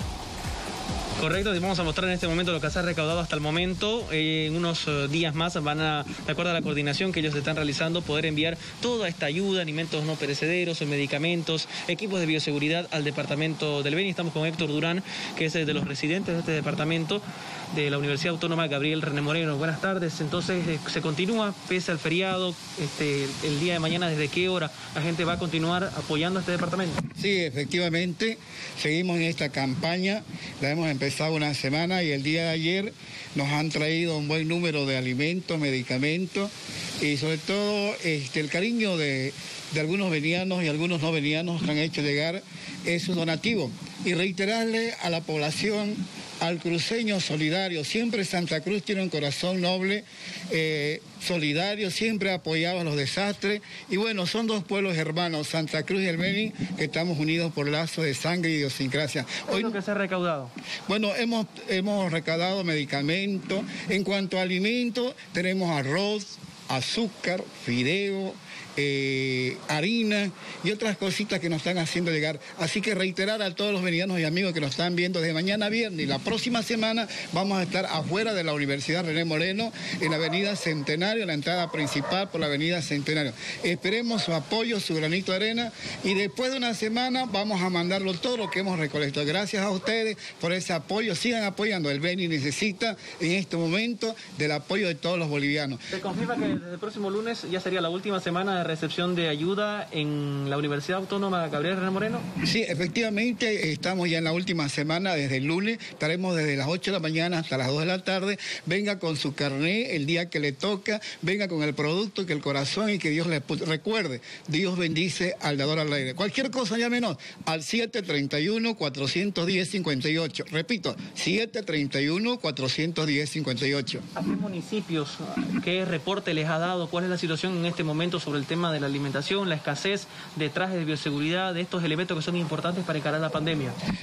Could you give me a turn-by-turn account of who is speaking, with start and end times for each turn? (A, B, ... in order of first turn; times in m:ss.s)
0:01.2-0:27.0 A
0:27.2-0:59.8 B
0:59.5-1:00.5 A
1:00.9-1:35.8 B
1:35.9-1:42.3 A
1:42.4-2:04.0 B
2:04.1-2:13.8 A